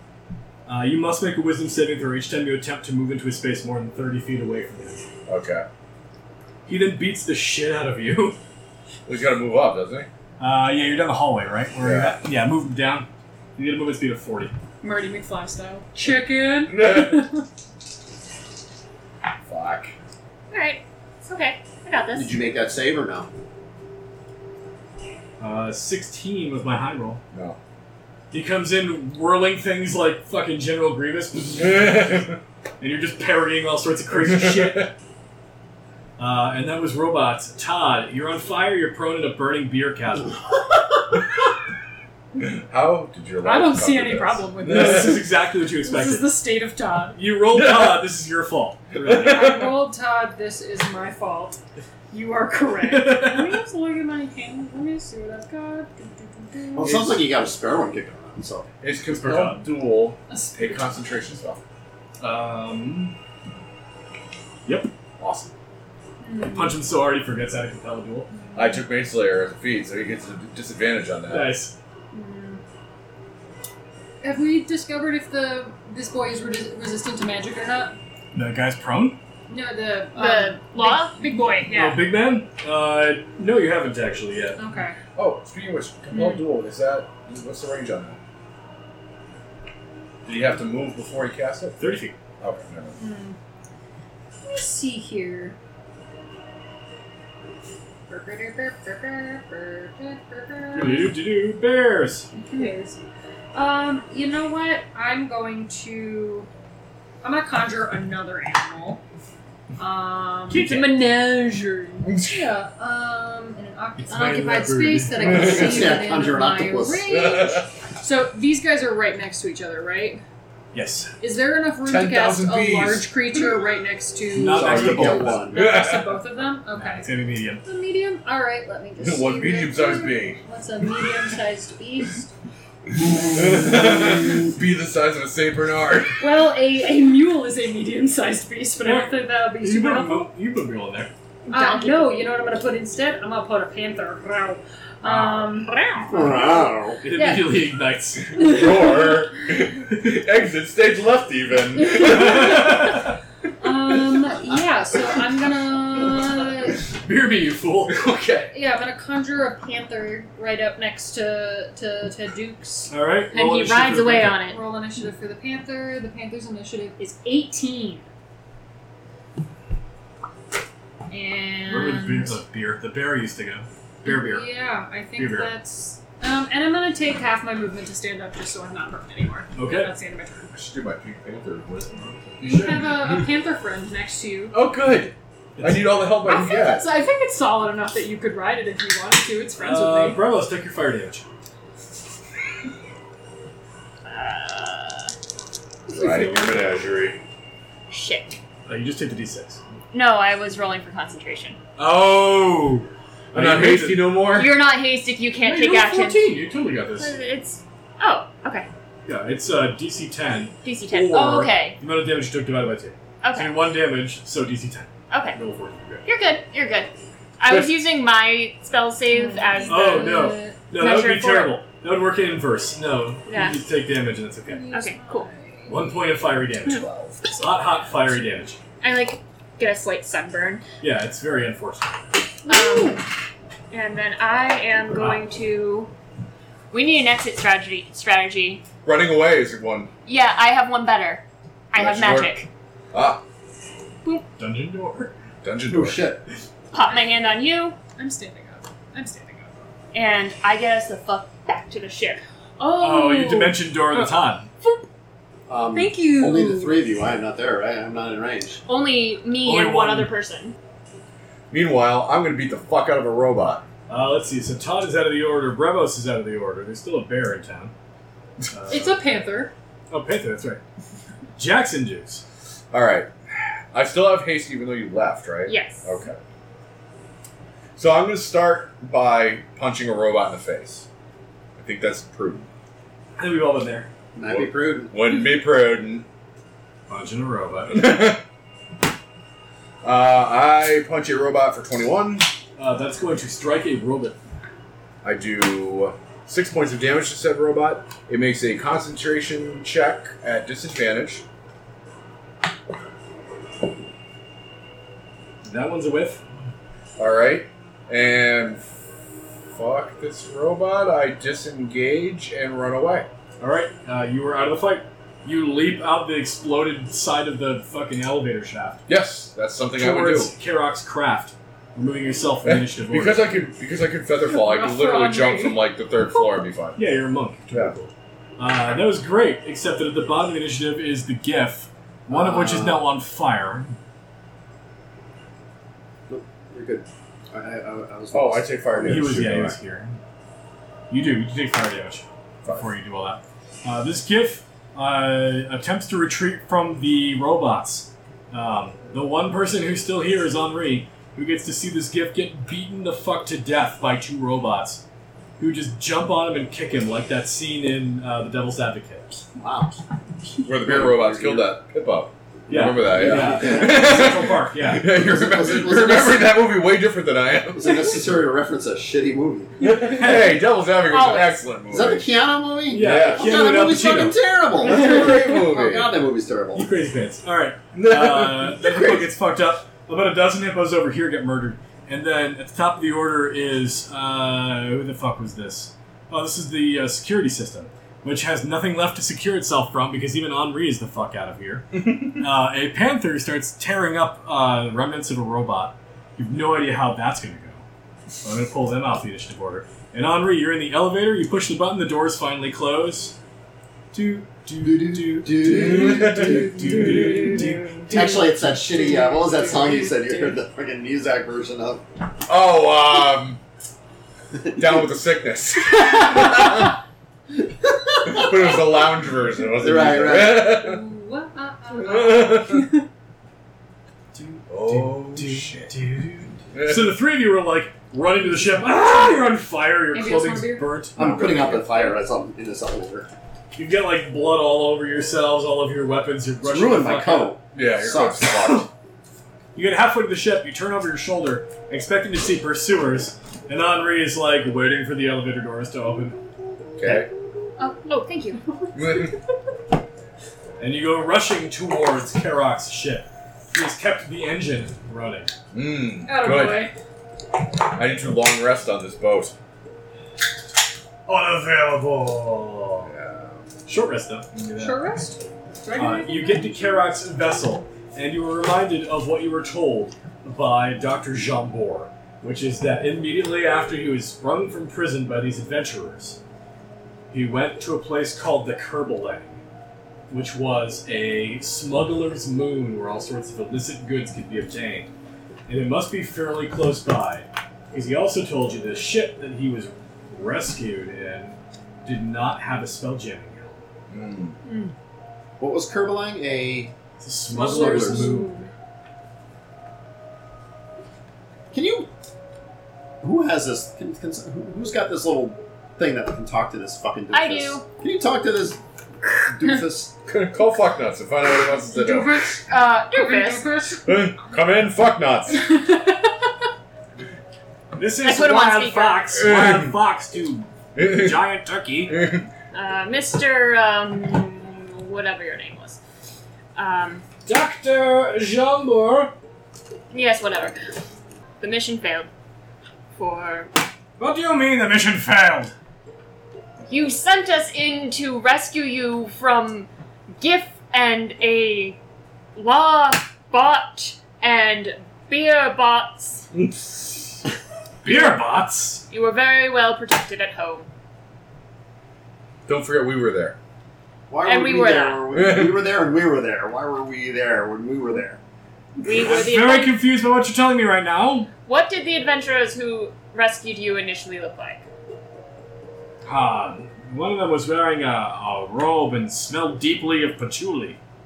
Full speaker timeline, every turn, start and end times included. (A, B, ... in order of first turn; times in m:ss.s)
0:00.7-0:05.0 A
0:05.3-0:05.7 B
0:06.7-0:08.4 A
0:09.1-0:10.1 B
0:10.4-0:14.5 A
0:11.8-0:12.2 B
0:14.8-0:17.4 C
0:16.7-0:17.2 B
0:19.5-0:19.9 B
0:20.5-0:22.3 D
0:22.1-0:23.3 E
0:25.4-0:27.2 A
0:27.3-0:27.6 B
0:28.3-0:32.3 A
0:31.6-0:32.4 B
0:32.8-0:34.9 A
0:34.1-0:34.9 B
0:36.2-0:40.4 A
0:42.4-0:45.1 B
0:43.4-0:47.2 C
0:44.6-0:46.4 A
0:47.2-0:49.6 A
0:47.5-0:48.0 B
0:49.0-0:49.8 B
0:49.1-0:51.6 C
0:52.1-0:57.1 C
0:52.8-0:53.6 A
0:56.8-0:58.7 E
0:58.8-1:01.6 B
0:59.1-0:59.6 A
1:00.3-1:01.1 C
1:02.2-1:03.2 A
1:04.7-1:04.9 A
1:05.2-1:05.5 B
1:06.2-1:06.8 C
1:06.5-1:08.3 A
1:08.5-1:11.6 B
1:11.3-1:11.8 A
1:12.1-1:12.6 C
1:14.2-1:18.0 C
1:18.3-1:19.2 A
1:19.5-1:22.1 C
1:20.2-1:21.4 D
1:21.7-1:24.6 A
1:24.6-1:25.0 C
1:25.2-1:28.2 B
1:26.1-1:26.4 C
1:30.2-1:31.8 B
1:31.8-1:32.2 A
1:32.4-1:33.0 B
1:33.0-1:33.4 C
1:34.4-1:35.6 C
1:38.1-1:41.2 C
1:40.7-1:42.3 A
1:42.3-1:43.0 C
1:43.5-1:46.5 C
1:47.2-1:49.0 C
1:49.8-2:00.2 C
1:50.5-1:51.1 A
1:52.1-1:52.5 B
1:54.0-1:55.9 A
1:55.3-1:57.2 E
1:55.4-1:55.9 B
1:57.1-1:57.6 B
2:00.7-2:01.1 A
2:01.2-2:07.1 C
2:01.8-2:03.2 B
2:04.3-2:05.5 A
2:04.4-2:05.7 E
2:05.1-2:06.2 B
2:06.7-2:07.6 A
2:07.6-2:12.3 C
2:09.0-2:10.4 B
2:13.2-2:16.4 B
2:16.2-2:20.3 C
2:18.8-2:21.1 A
2:21.5-2:22.2 D
2:21.5-2:27.7 C
2:25.0-2:25.6 A
2:26.1-2:27.0 E
2:27.0-2:28.5 A
2:28.3-2:33.0 B
2:28.3-2:29.3 C
2:31.8-2:33.0 C
2:32.0-2:33.1 A
2:33.6-2:36.8 C
2:37.0-2:38.1 A
2:37.9-2:38.5 B
2:38.5-2:42.9 C
2:42.9-2:44.4 A
2:43.3-2:44.6 D
2:44.3-2:48.1 C
2:51.1-2:52.4 C
2:51.7-2:54.5 A
2:54.0-3:00.5 C
2:55.2-2:55.6 A
2:59.6-2:59.9 A
3:00.5-3:03.1 B
3:02.4-3:04.5 C
3:02.4-3:03.2 A
3:04.5-3:06.9 B
3:05.6-3:06.1 A
3:06.2-3:10.2 C
3:09.6-3:11.2 A
3:14.1-3:15.1 D
3:15.9-3:17.2 B
3:15.9-3:16.7 A
3:17.9-3:18.4 D
3:18.7-3:19.6 A
3:19.9-3:21.6 D
3:21.8-3:24.2 A
3:23.3-3:24.5 B
3:24.3-3:26.3 D
3:25.4-3:27.2 A
3:27.0-3:28.7 D
3:29.1-3:36.1 A
3:30.6-3:31.8 D
3:33.2-3:33.6 D
3:35.1-3:35.4 D
3:36.0-3:40.2 D
3:37.5-3:37.7 B
3:39.1-3:40.6 C
3:39.7-3:44.7 A
3:40.7-3:41.6 D
3:43.3-3:43.6 D
3:44.5-3:45.9 C
3:44.7-3:45.3 D
3:45.7-3:48.6 A
3:46.7-3:47.2 B
3:48.8-3:50.6 D
3:50.8-3:52.1 A
3:52.5-3:53.0 C
3:52.5-3:53.1 D
3:53.7-3:55.9 D
3:56.7-3:58.6 D
3:58.8-3:59.9 B
4:00.1-4:02.5 D
4:01.8-4:02.3 B
4:02.9-4:03.2 B
4:04.4-4:05.1 A
4:05.4-4:06.0 B
4:05.7-4:06.2 E
4:06.7-4:07.8 D
4:08.0-4:09.7 C
4:09.9-4:12.2 D
4:12.6-4:14.1 C
4:12.7-4:14.5 A
4:15.5-4:18.6 E
4:15.7-4:16.8 C
4:18.7-4:20.6 D
4:19.4-4:20.1 A
4:21.5-4:23.6 B
4:23.9-4:27.7 A
4:28.5-4:29.0 A
4:28.7-4:29.5 C
4:29.9-4:30.6 A
4:31.4-4:32.2 A
4:32.7-4:36.2 B
4:35.5-4:35.9 D
4:37.8-4:40.9 B
4:41.6-4:42.5 B
4:43.2-4:43.9 A
4:44.2-4:44.9 E
4:44.3-4:46.0 B
4:46.9-4:48.1 A
4:47.7-4:48.2 B
4:49.8-4:52.3 B
4:52.6-4:54.2 A
4:55.0-5:01.2 B
5:05.4-5:06.2 A
5:07.0-5:08.6 B
5:09.5-5:13.1 B
5:13.4-5:18.9 A
5:18.9-5:20.3 B
5:19.8-5:23.4 A
5:22.4-5:26.8 B
5:24.2-5:25.7 C
5:26.8-5:33.8 A
5:32.1-5:32.9 E
5:36.1-5:39.5 E
5:38.1-5:39.6 B
5:38.8-5:40.0 A
5:40.9-5:54.8 A
5:55.4-5:59.2 A
5:59.4-5:59.8 E
6:00.4-6:01.5 E
6:00.4-6:07.9 B
6:02.5-6:04.9 A
6:02.6-6:04.2 E
6:04.8-6:06.4 E
6:07.6-6:09.6 E
6:09.6-6:12.1 B
6:09.6-6:10.4 A
6:10.9-6:11.4 D
6:11.7-6:16.7 E
6:12.7-6:14.3 A
6:12.8-6:13.5 B
6:14.6-6:15.9 B
6:16.5-6:37.6 A
6:17.7-6:19.1 B
6:31.8-6:32.2 B
6:38.2-6:43.2 A
6:43.9-6:47.9 A
6:44.6-6:47.0 E
6:45.5-6:47.9 B
6:47.9-6:51.8 E
6:48.5-6:50.4 C
6:52.3-6:53.4 B
6:54.3-6:54.8 E
6:54.5-6:56.8 B
6:57.6-6:58.8 E
6:58.0-7:00.8 B
6:59.6-7:00.7 E
7:00.4-7:02.9 C
7:01.8-7:02.7 B
7:04.1-7:11.0 A
7:04.5-7:05.8 B
7:06.5-7:07.0 B
7:09.9-7:10.7 C
7:11.0-7:12.0 B
7:11.0-7:13.1 E
7:13.6-7:17.4 A
7:16.4-7:18.6 E
7:17.5-7:18.7 B
7:19.5-7:26.2 A
7:26.8-7:27.1 B
7:26.8-7:27.1 E
7:27.6-7:28.4 D
7:28.6-7:29.1 C
7:28.8-7:29.2 B
7:30.6-7:35.3 A
7:35.5-7:36.7 B
7:36.0-7:36.8 C
7:37.6-7:39.4 B
7:41.1-7:42.9 A
7:42.9-7:43.4 B
7:43.7-7:45.0 A
7:44.6-7:46.5 C
7:45.7-7:56.2 A
7:57.1-7:59.4 A
8:00.1-8:04.9 A
8:05.5-8:13.7 A
8:13.9-8:14.4 B
8:15.4-8:16.7 E
8:17.0-8:18.3 A
8:17.4-8:18.5 C
8:17.5-8:18.2 E
8:17.5-8:18.4 D
8:21.5-8:21.9 E
8:23.0-8:30.0 E
8:27.1-8:27.7 D
8:30.1-8:32.2 B
8:31.7-8:33.9 C
8:32.5-8:33.5 D
8:33.8-8:35.5 B
8:35.5-8:35.9 C
8:37.8-8:42.1 A
8:38.0-8:39.3 D
8:39.2-8:39.8 B
8:40.8-8:41.2 B
8:41.9-8:42.2 B
8:42.5-8:45.8 D
8:46.6-8:47.0 D
8:47.2-8:49.1 A
8:49.9-8:50.6 D
8:51.4-8:52.1 D
8:53.0-8:53.5 D
8:54.0-8:55.5 A
8:56.7-8:59.7 D
9:00.2-9:01.8 D
9:02.4-9:06.3 D
9:07.8-9:08.8 A
9:08.9-9:10.7 D
9:12.5-9:13.4 B
9:14.1-9:18.2 E
9:14.2-9:15.0 D
9:15.1-9:15.6 B
9:18.8-9:19.8 D
9:18.8-9:21.3 A
9:21.5-9:24.6 D
9:26.0-9:30.8 A